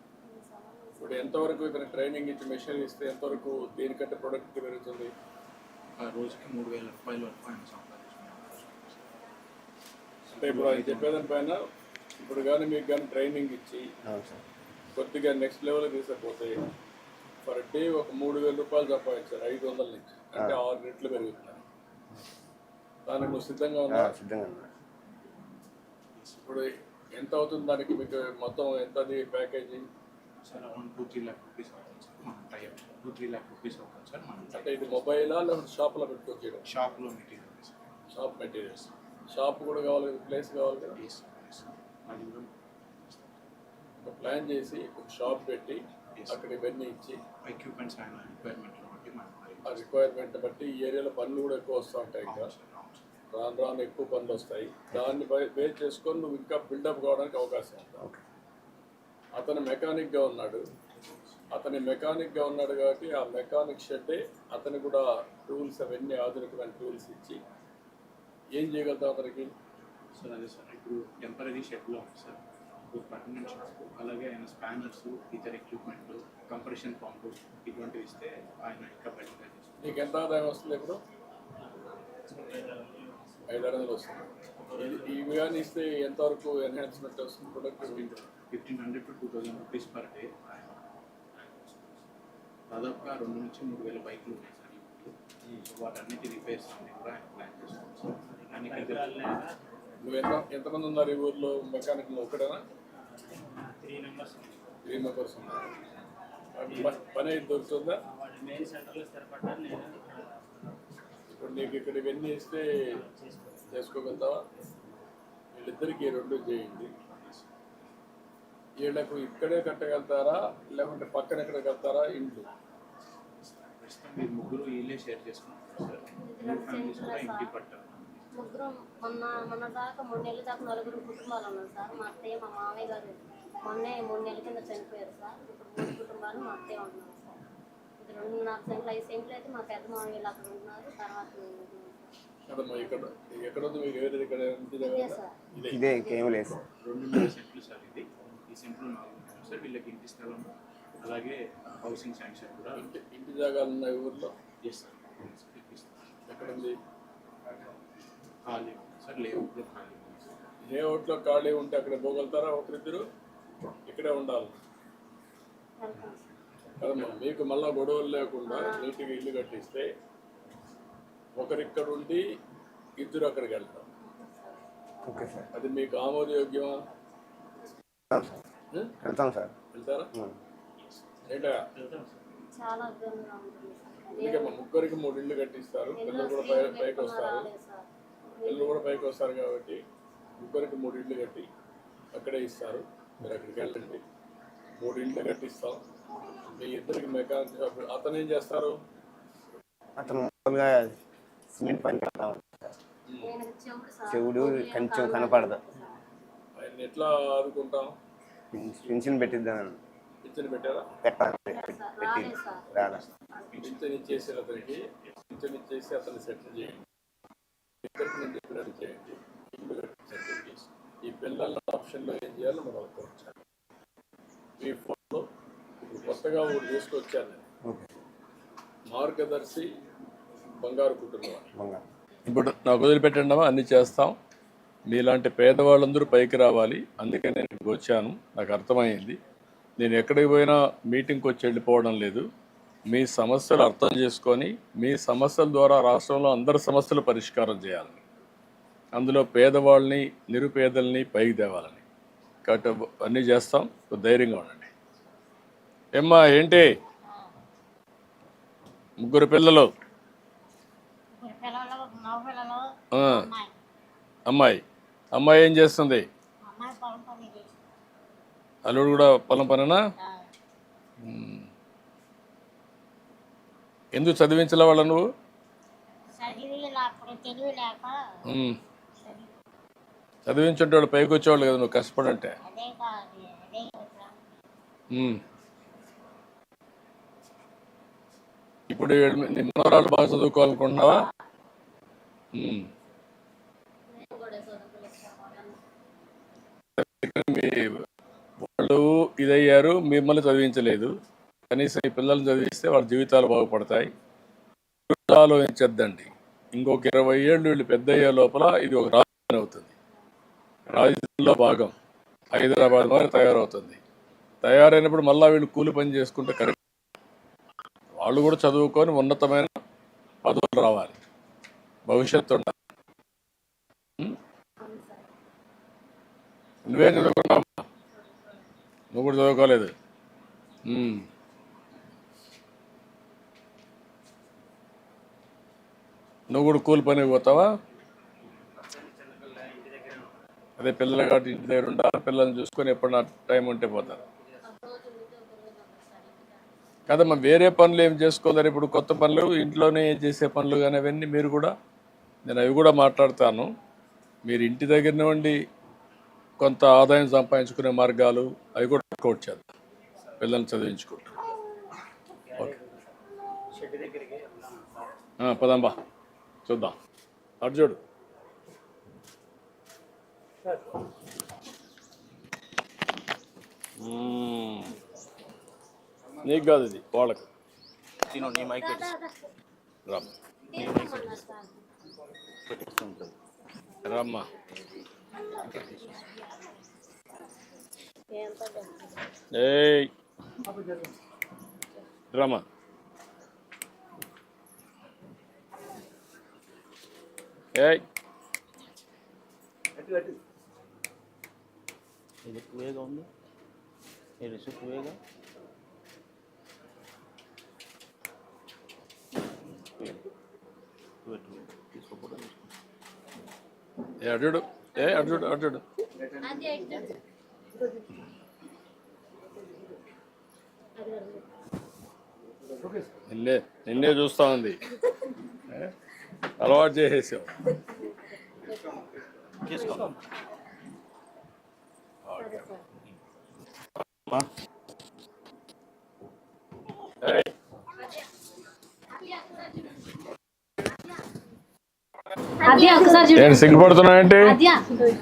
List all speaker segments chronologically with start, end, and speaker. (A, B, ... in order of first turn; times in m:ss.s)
0:00.2-0:01.5 A
0:01.0-0:05.1 B
0:06.0-0:09.1 C
0:10.3-0:11.3 C
0:10.4-0:11.6 B
0:12.2-0:13.9 B
0:14.1-0:14.4 D
0:14.9-0:16.6 B
0:17.4-0:21.6 B
0:23.1-0:24.2 B
0:23.9-0:24.7 D
0:26.2-0:26.5 C
0:26.4-0:29.9 B
0:30.4-0:34.9 C
0:34.5-0:36.6 B
0:36.7-0:37.8 C
0:38.1-0:41.0 B
0:41.0-0:42.5 C
0:43.1-0:43.4 C
0:44.0-0:47.2 B
0:46.2-0:46.4 C
0:47.4-0:49.9 C
0:49.6-0:52.5 B
0:52.2-0:53.0 C
0:53.3-0:58.0 B
0:59.4-1:00.6 B
1:01.5-1:07.4 B
1:08.6-1:09.5 B
1:10.2-1:20.0 C
1:19.8-1:21.0 B
1:22.2-1:23.6 E
1:23.5-1:28.1 B
1:24.7-1:25.2 E
1:27.8-1:30.3 C
1:32.7-1:39.2 C
1:38.3-1:39.6 E
1:40.0-1:42.6 B
1:43.2-1:44.6 E
1:44.8-1:45.7 B
1:46.5-1:48.0 B
1:46.7-1:47.0 E
1:48.1-1:50.7 E
1:51.3-1:52.8 B
1:52.9-1:53.6 E
1:53.7-1:54.4 B
1:55.5-1:56.9 B
1:57.0-1:57.5 C
1:58.8-2:02.5 B
2:03.4-2:08.1 C
2:06.2-2:07.5 A
2:08.4-2:17.4 A
2:18.0-2:22.1 A
2:22.5-2:25.8 B
2:24.8-2:25.4 A
2:25.6-2:26.6 D
2:26.0-2:26.4 A
2:26.8-2:32.9 C
2:32.8-2:34.3 B
2:34.6-2:36.4 C
2:36.3-2:36.8 B
2:38.4-2:40.3 C
2:40.6-2:43.0 B
2:43.9-2:44.6 B
2:45.8-2:46.2 A
2:46.8-2:49.9 B
2:48.5-2:48.9 A
2:51.4-2:52.2 B
2:53.0-2:53.9 B
2:54.0-2:55.2 A
2:55.0-2:55.5 D
2:55.5-2:56.8 B
2:58.1-2:58.4 D
2:59.0-2:59.5 D
2:59.7-3:00.1 B
3:00.8-3:01.2 C
3:01.3-3:01.6 B
3:02.5-3:04.6 A
3:04.2-3:07.5 B
3:06.0-3:07.8 A
3:08.4-3:08.8 A
3:08.5-3:09.8 B
3:10.4-3:11.5 B
3:12.1-3:14.0 B
3:14.8-3:15.8 B
3:16.5-3:18.8 B
3:20.0-3:20.9 D
3:21.5-3:22.8 D
3:23.2-3:26.0 A
3:24.1-3:25.6 D
3:26.6-3:27.9 B
3:28.5-3:29.8 D
3:30.2-3:30.9 B
3:31.0-3:33.0 D
3:31.5-3:32.7 A
3:32.7-3:34.5 C
3:33.6-3:36.8 B
3:37.8-3:43.4 B
3:44.6-3:45.2 B
3:45.8-3:47.4 B
3:47.6-3:47.9 D
3:48.9-3:49.7 B
3:50.6-3:51.5 B
3:51.5-3:51.8 D
3:52.3-3:54.2 B
3:54.9-3:59.2 B
3:59.8-4:02.2 B
4:02.9-4:08.0 B
4:09.0-4:11.8 B
4:12.4-4:14.7 B
4:16.0-4:16.7 B
4:19.0-4:19.7 B
4:21.2-4:23.5 F
4:22.9-4:23.3 B
4:24.3-4:24.6 B
4:25.1-4:26.0 B
4:26.4-4:27.5 F
4:28.7-4:29.8 B
4:31.0-4:31.5 B
4:33.9-4:35.0 B
4:36.2-4:38.0 F
4:38.3-4:38.5 B
4:39.0-4:39.3 F
4:40.3-4:42.4 B
4:42.4-4:44.4 F
4:44.9-4:45.2 B
4:48.7-4:51.0 B
4:52.4-4:52.7 B
4:53.9-4:55.6 A
4:56.8-4:57.8 B
4:58.4-5:00.9 B
5:01.5-5:03.9 B
5:04.9-5:09.7 B
5:10.7-5:11.7 B
5:12.3-5:13.8 B
5:14.4-5:16.6 B
5:18.0-5:19.5 B
5:20.2-5:21.0 B
5:21.9-5:22.5 B
5:24.6-5:25.1 A
5:26.7-5:27.6 B
5:28.9-5:29.7 B
5:30.7-5:31.0 B
5:36.3-5:37.5 B
5:38.6-5:40.2 E
5:40.6-5:44.0 B
5:44.4-5:46.4 A
5:46.9-5:51.5 B
5:52.2-5:53.5 B
5:54.3-5:55.4 B
5:56.4-5:59.4 B
6:00.2-6:01.2 B
6:02.3-6:03.0 E
6:03.5-6:05.0 E
6:05.2-6:05.8 B
6:06.5-6:06.7 B
6:07.4-6:07.8 B
6:13.8-6:14.8 B
6:16.2-6:17.3 B
6:18.1-6:18.9 C
6:18.1-6:19.3 A
6:20.5-6:21.6 A
6:20.6-6:21.4 C
6:22.5-6:23.1 C
6:23.8-6:24.3 B
6:25.2-6:25.7 A
6:25.4-6:26.1 C
6:28.1-6:29.1 A
6:29.3-6:29.9 B
6:32.1-6:32.4 B
6:37.5-6:37.8 B
6:42.2-6:43.1 C
6:44.2-6:45.0 C
6:51.0-6:52.5 C
6:54.0-6:55.6 B
6:56.1-6:57.0 A
7:00.8-7:01.2 A
7:03.1-7:04.6 B
7:06.4-7:07.3 B
7:07.6-7:08.8 A
7:09.5-7:09.9 C
7:09.5-7:09.9 A
7:12.1-7:12.5 B
7:12.2-7:12.6 A
7:17.0-7:17.3 B
7:22.4-7:23.7 A
7:23.1-7:24.4 B
7:24.2-7:24.8 A